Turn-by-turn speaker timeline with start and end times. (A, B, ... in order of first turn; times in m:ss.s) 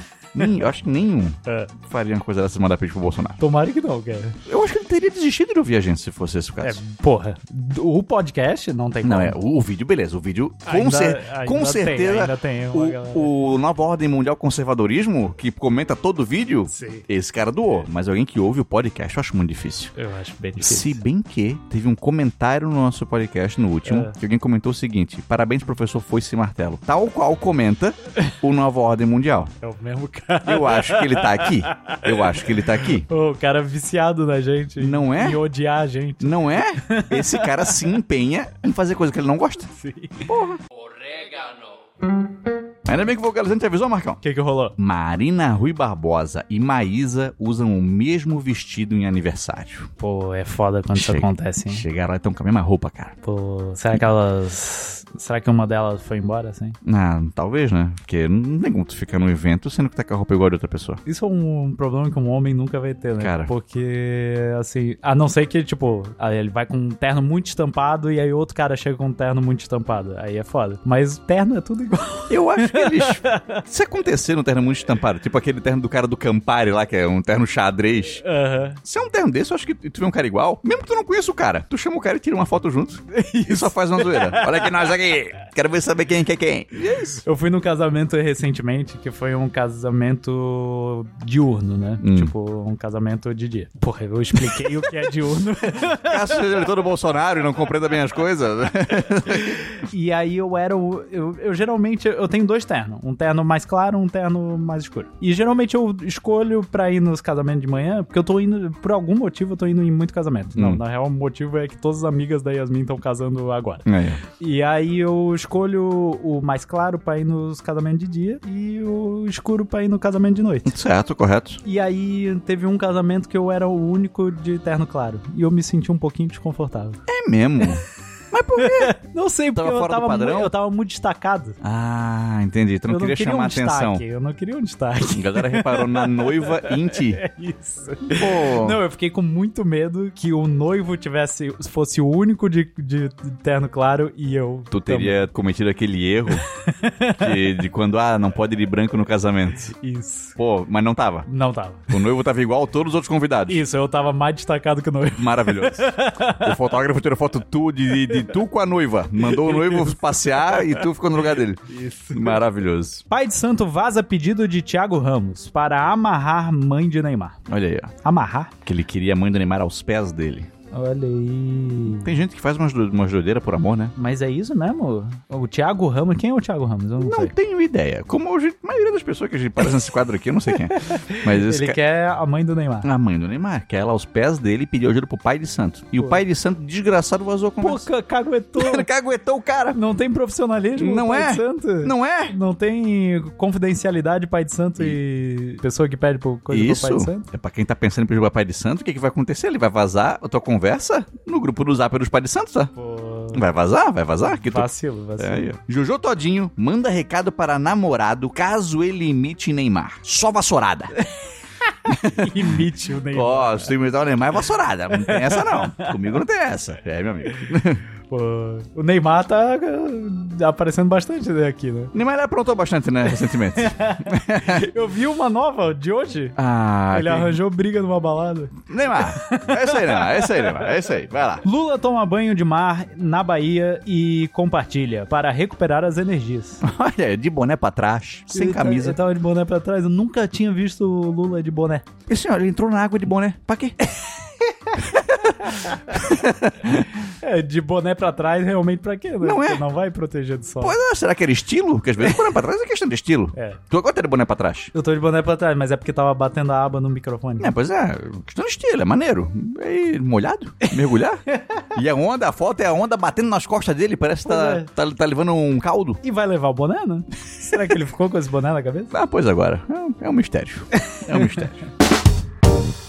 0:00.3-0:03.4 A
0:03.4-0:04.4 B
0:04.4-0:06.8 A
0:06.6-0:09.4 B
0:09.0-0:19.9 A
0:10.6-0:13.4 B
0:16.7-0:17.0 B
0:20.0-0:21.0 B
0:20.6-0:29.5 A
0:23.8-0:24.2 B
0:29.6-0:37.9 B
0:30.4-0:33.1 A
0:34.8-0:35.4 A
0:36.2-0:39.7 A
0:39.7-0:40.3 B
0:40.2-0:41.5 A
0:42.8-0:44.2 A
0:44.2-0:44.8 B
0:44.8-0:49.9 A
0:50.0-0:51.8 B
0:50.9-0:53.1 A
0:53.2-0:56.8 B
0:56.8-1:01.0 A
1:01.0-1:13.6 B
1:03.2-1:03.5 A
1:12.3-1:18.2 A
1:18.2-1:18.8 B
1:18.8-1:27.2 A
1:23.1-1:24.8 B
1:27.2-1:36.6 B
1:32.0-1:32.3 A
1:34.4-1:34.8 A
1:35.8-1:39.6 A
1:39.3-2:00.7 B
1:53.8-1:54.2 A
2:00.6-2:01.6 A
2:01.6-2:07.0 B
2:07.1-2:09.0 A
2:08.6-2:11.6 B
2:09.5-2:10.5 A
2:11.6-2:14.0 A
2:12.9-2:25.2 B
2:15.1-2:17.2 A
2:18.1-2:18.8 A
2:24.7-2:26.4 A
2:26.5-2:27.4 B
2:27.2-2:29.7 A
2:29.7-2:30.4 B
2:30.4-2:31.3 A
2:31.3-2:32.0 B
2:31.9-2:33.6 A
2:33.5-2:36.6 B
2:35.2-2:43.0 A
2:39.2-2:40.9 B
2:41.7-2:42.4 B
2:43.1-2:47.4 B
2:47.5-2:47.9 A
2:48.0-2:48.5 B
2:48.6-2:50.5 A
2:50.7-2:52.1 B
2:51.9-2:53.9 A
2:54.0-2:57.3 B
2:57.0-3:01.8 A
3:00.5-3:02.9 B
3:02.8-3:07.9 A
3:07.6-3:08.9 B
3:08.6-3:09.8 A
3:09.7-3:17.2 B
3:10.8-3:12.4 A
3:16.5-3:22.7 A
3:22.8-3:23.4 B
3:23.3-3:31.0 A
3:24.4-3:25.5 B
3:31.6-3:33.7 B
3:31.8-3:37.8 A
3:34.9-3:36.0 B
3:38.1-3:41.9 B
3:41.9-3:44.6 A
3:43.2-3:46.4 B
3:46.4-3:47.4 A
3:46.9-3:50.8 B
3:48.7-3:51.4 A
3:51.4-3:56.6 B
3:56.6-3:59.0 A
3:58.3-4:01.8 B
4:02.1-4:03.8 A
4:04.5-4:06.1 B
4:04.8-4:06.9 A
4:07.0-4:10.8 B
4:09.2-4:09.7 A
4:10.6-4:14.7 A
4:13.3-4:13.6 B
4:14.7-4:17.5 B
4:17.4-4:26.0 A
4:21.3-4:21.7 B
4:24.2-4:24.7 B
4:26.0-4:28.9 B
4:28.9-4:31.6 A
4:30.8-4:31.3 B